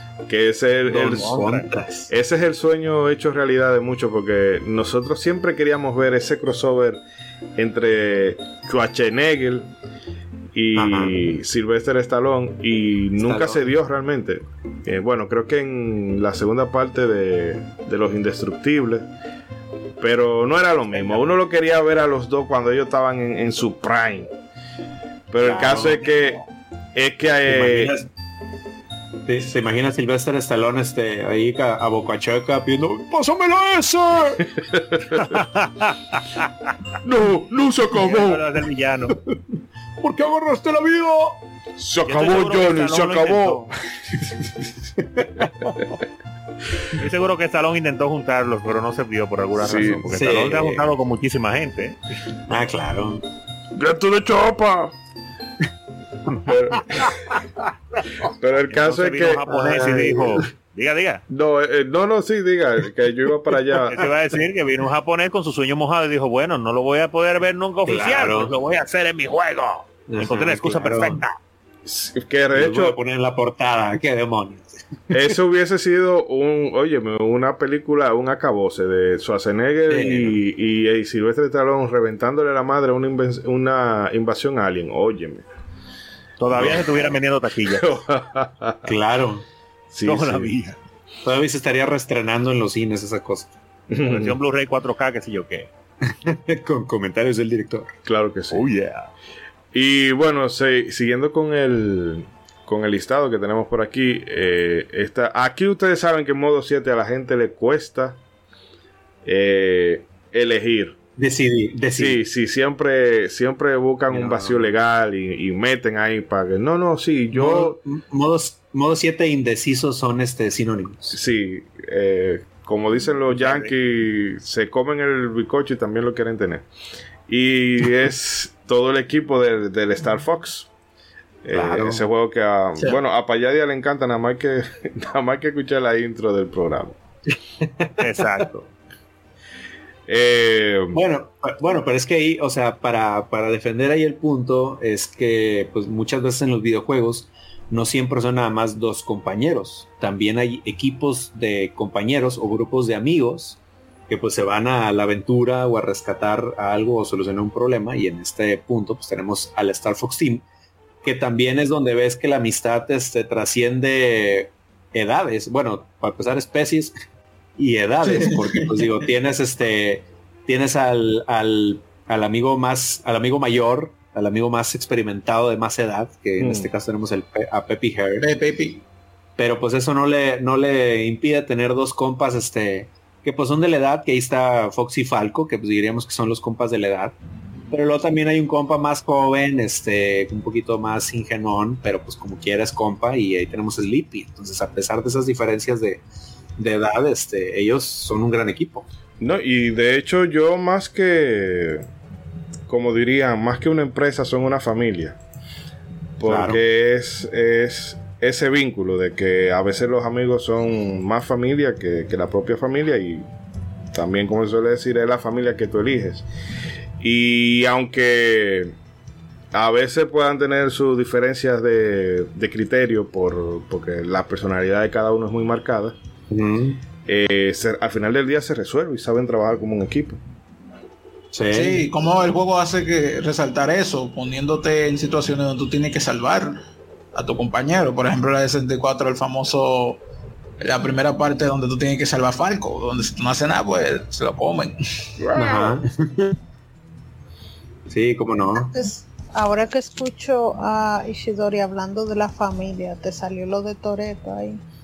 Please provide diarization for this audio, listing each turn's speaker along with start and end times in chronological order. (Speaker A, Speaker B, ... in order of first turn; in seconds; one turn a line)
Speaker A: 0.3-1.3
Speaker B: 0.9-2.1
Speaker C: 1.1-1.7
Speaker A: 2.1-7.0
Speaker A: 7.6-9.7
Speaker A: 10.5-19.1
Speaker B: 10.8-11.3
Speaker B: 13.2-13.7
Speaker A: 20.0-24.3
Speaker B: 20.9-21.2
Speaker A: 25.3-26.4
Speaker B: 25.4-26.0
Speaker D: 25.5-25.9
Speaker A: 26.9-27.9
Speaker B: 27.5-28.1
Speaker B: 29.3-34.5
Speaker A: 34.7-35.2
Speaker C: 35.3-36.7
Speaker A: 37.0-38.5
Speaker C: 37.9-39.2
Speaker B: 40.0-41.4
Speaker A: 41.8-43.7
Speaker C: 42.0-43.7
Speaker B: 45.0-45.8
Speaker C: 47.0-52.0
Speaker A: 49.6-50.1
Speaker B: 50.1-50.9
Speaker B: 52.5-53.2
Speaker A: 53.8-54.9
Speaker A: 56.3-57.4
Speaker A: 58.3-59.7
Speaker C: 58.6-61.2
Speaker B: 59.5-60.5
Speaker A: 61.3-64.0
Speaker C: 63.9-71.4
Speaker B: 67.9-68.5
Speaker B: 70.1-71.2
Speaker A: 71.9-73.0
Speaker B: 72.5-75.3
Speaker A: 75.1-85.4
Speaker B: 79.9-80.4
Speaker C: 86.4-87.9
Speaker A: 86.5-87.1
Speaker A: 87.7-88.9
Speaker B: 88.8-89.5
Speaker A: 89.9-90.5
Speaker C: 90.0-90.8
Speaker B: 91.2-93.5
Speaker A: 93.9-94.4
Speaker C: 94.0-95.7
Speaker B: 96.1-97.9
Speaker A: 98.1-98.7
Speaker C: 98.5-99.1
Speaker A: 99.7-108.2
Speaker A: 109.3-111.0
Speaker B: 111.2-112.2
Speaker A: 112.0-117.8
Speaker B: 114.1-114.7
Speaker B: 117.3-121.2
Speaker A: 121.1-126.7
Speaker C: 123.4-123.7
Speaker A: 127.3-130.7
Speaker A: 131.4-137.0
Speaker B: 131.5-132.0
Speaker B: 137.6-137.9
Speaker C: 138.0-138.7
Speaker A: 140.1-141.0
Speaker B: 140.9-160.4
Speaker B: 161.0-166.9
Speaker B: 167.6-178.3
Speaker E: 168.0-169.0
Speaker A: 176.4-176.7
Speaker E: 178.2-178.8
Speaker B: 179.4-187.2
Speaker B: 187.7-196.0
Speaker B: 196.6-198.9
Speaker A: 199.2-201.8
Speaker A: 202.7-205.2
Speaker A: 206.2-213.2
Speaker B: 206.3-206.6
Speaker A: 213.9-216.3
Speaker A: 217.0-218.7
Speaker A: 219.5-225.9
Speaker B: 226.3-226.8
Speaker A: 227.1-230.2
Speaker B: 231.3-231.8
Speaker E: 231.5-236.6
Speaker E: 237.1-240.0
Speaker E: 240.6-244.8
Speaker B: 245.3-246.3
Speaker D: 245.4-245.7
Speaker B: 247.9-248.7
Speaker D: 248.6-254.6